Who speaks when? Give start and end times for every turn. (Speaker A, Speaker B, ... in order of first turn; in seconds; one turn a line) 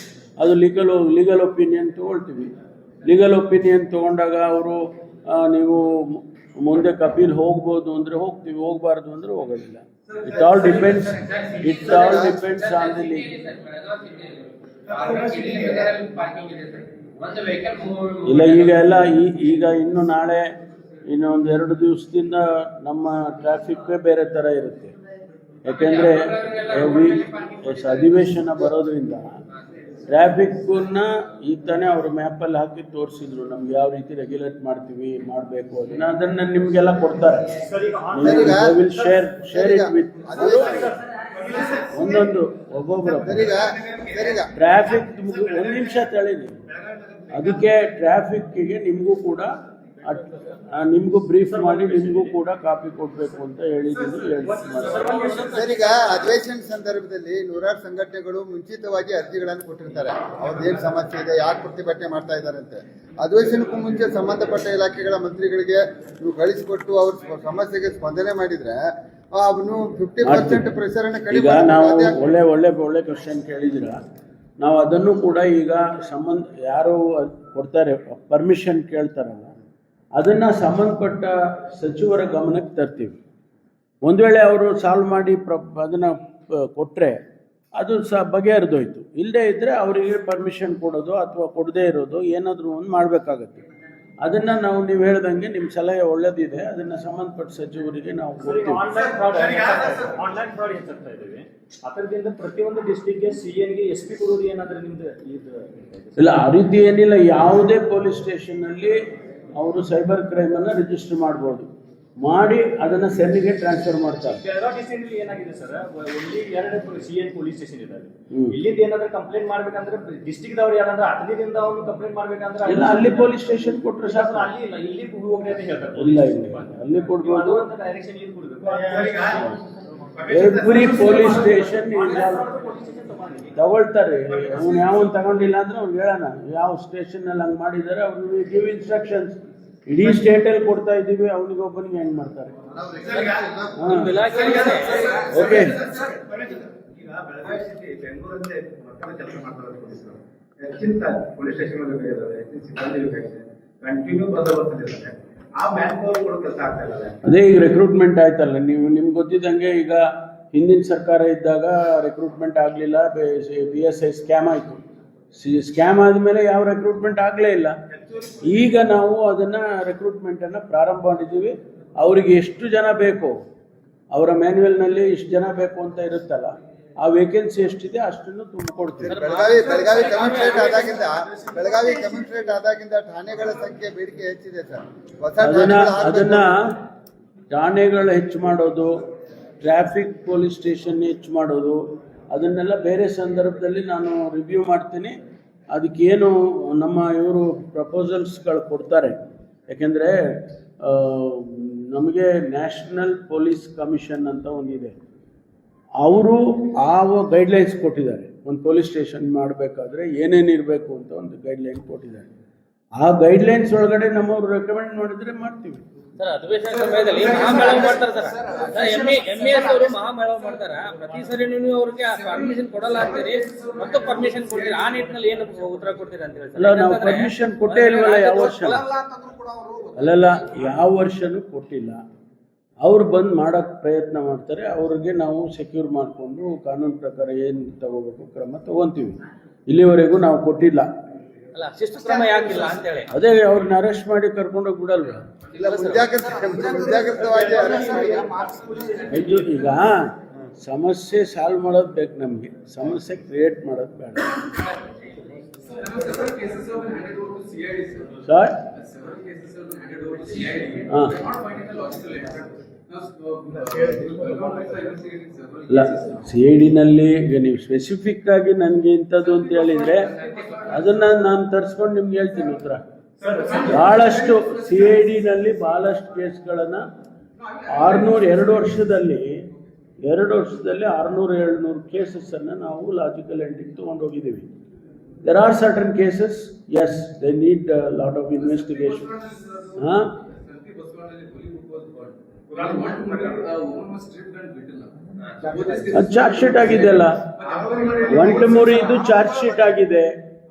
Speaker A: 0.4-13.3
Speaker B: 10.3-18.8
Speaker C: 15.1-15.5
Speaker A: 18.2-20.5
Speaker A: 21.1-24.9
Speaker A: 25.6-29.4
Speaker B: 25.7-27.9
Speaker A: 30.1-37.6
Speaker D: 37.7-38.6
Speaker A: 38.1-40.9
Speaker E: 38.2-38.8
Speaker E: 39.5-40.9
Speaker C: 41.4-41.8
Speaker A: 41.8-43.6
Speaker E: 43.2-44.5
Speaker A: 44.5-46.6
Speaker A: 47.3-49.5
Speaker A: 50.0-55.2
Speaker D: 51.5-52.3
Speaker D: 54.4-56.0
Speaker E: 55.5-72.2
Speaker A: 70.2-70.7
Speaker A: 71.3-74.0
Speaker A: 74.6-79.5
Speaker A: 80.2-83.2
Speaker A: 84.0-87.2
Speaker A: 87.8-93.6
Speaker A: 94.2-98.8
Speaker D: 98.4-106.4
Speaker A: 106.2-109.0
Speaker A: 109.5-111.7
Speaker A: 112.2-114.4
Speaker D: 114.3-129.6
Speaker A: 118.3-118.6
Speaker A: 122.7-124.5
Speaker A: 126.0-127.7
Speaker C: 128.6-129.5
Speaker C: 130.2-131.4
Speaker A: 130.3-132.5
Speaker D: 130.7-133.5
Speaker A: 133.5-142.5
Speaker C: 134.6-134.9
Speaker C: 142.9-143.6
Speaker A: 143.8-144.3
Speaker B: 143.8-145.3
Speaker C: 144.5-157.2
Speaker A: 145.2-145.8
Speaker A: 157.2-164.8
Speaker A: 165.3-167.8
Speaker A: 168.4-173.3
Speaker A: 174.1-179.2
Speaker E: 179.0-186.5
Speaker B: 179.1-181.0
Speaker A: 185.4-186.8
Speaker A: 187.5-189.0
Speaker A: 189.6-195.2
Speaker A: 195.7-204.9
Speaker A: 206.0-212.3
Speaker A: 213.0-215.8
Speaker B: 216.2-228.8
Speaker A: 226.6-228.8
Speaker F: 228.9-229.9
Speaker A: 229.9-232.0
Speaker A: 232.8-240.9
Speaker B: 241.5-243.1
Speaker A: 243.1-245.2
Speaker E: 245.6-248.3
Speaker D: 246.5-249.7
Speaker A: 249.1-254.5
Speaker F: 255.7-266.2
Speaker A: 258.2-258.6
Speaker A: 260.9-261.2
Speaker C: 263.5-264.9
Speaker A: 265.7-270.1
Speaker F: 269.3-270.8
Speaker B: 270.1-270.6
Speaker A: 270.6-272.8
Speaker C: 273.2-273.8
Speaker F: 273.3-274.9
Speaker A: 273.6-276.8
Speaker A: 277.6-279.4
Speaker A: 280.0-284.5
Speaker A: 285.2-289.1
Speaker F: 288.4-299.5
Speaker A: 289.8-290.2
Speaker C: 292.5-293.5
Speaker A: 295.9-297.2
Speaker C: 297.4-298.7
Speaker A: 298.1-300.1